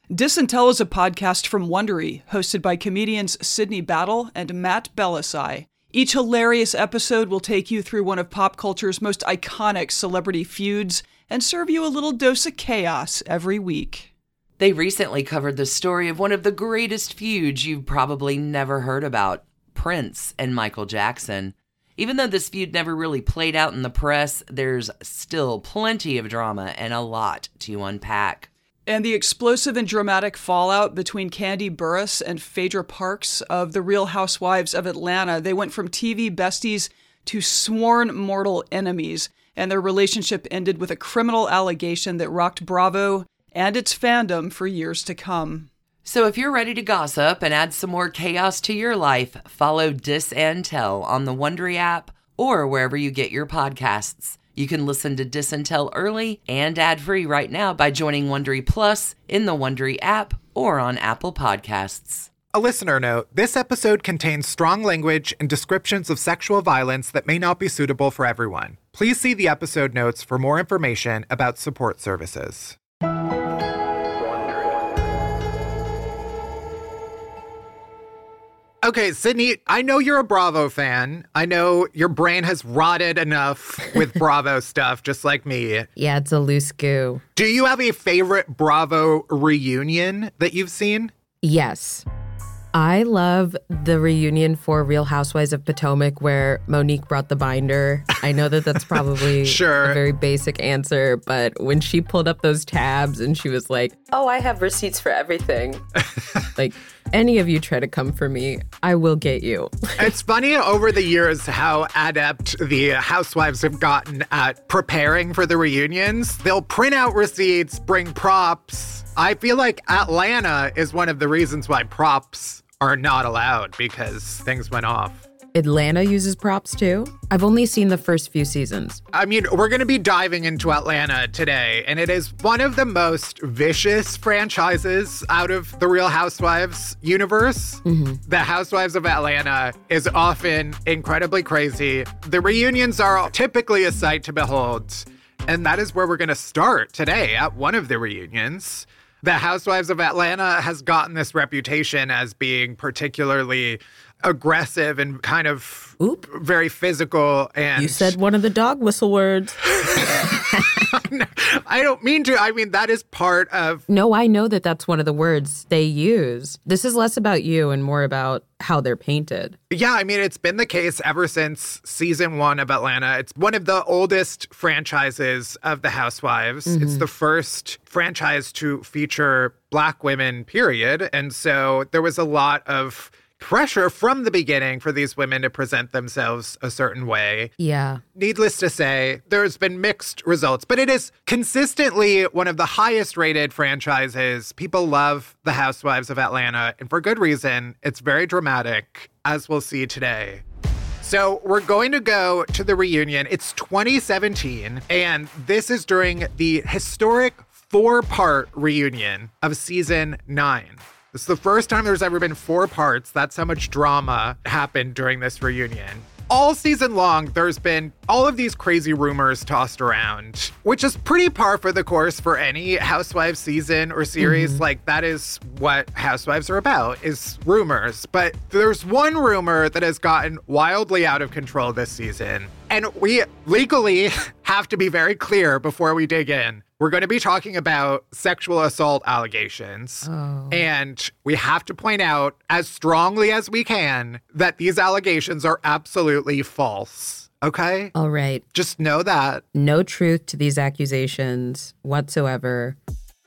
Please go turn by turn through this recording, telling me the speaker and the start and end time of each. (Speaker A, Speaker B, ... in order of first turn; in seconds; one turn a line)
Speaker A: 0.1-14.1
Speaker B: 14.6-28.5
Speaker A: 28.9-45.7
Speaker B: 46.0-62.3
Speaker C: 62.5-72.8
Speaker C: 78.8-85.9
Speaker D: 86.0-87.2
Speaker C: 87.3-91.1
Speaker D: 91.4-92.0
Speaker D: 92.7-106.0
Speaker C: 98.9-100.0
Speaker D: 106.5-109.9
Speaker C: 110.0-125.3
Speaker D: 125.5-129.0
Speaker C: 129.1-158.2
Speaker D: 137.8-138.2
Speaker D: 157.8-159.8
Speaker C: 160.0-163.8
Speaker D: 163.9-169.6
Speaker C: 169.7-187.5
Speaker D: 176.7-177.0
Speaker D: 187.6-188.0
Speaker C: 188.2-200.4
Speaker C: 201.0-247.9
Speaker D: 224.2-224.6
Speaker D: 240.0-240.6
Speaker D: 247.9-248.4
Speaker C: 248.5-249.4
Speaker D: 249.5-252.8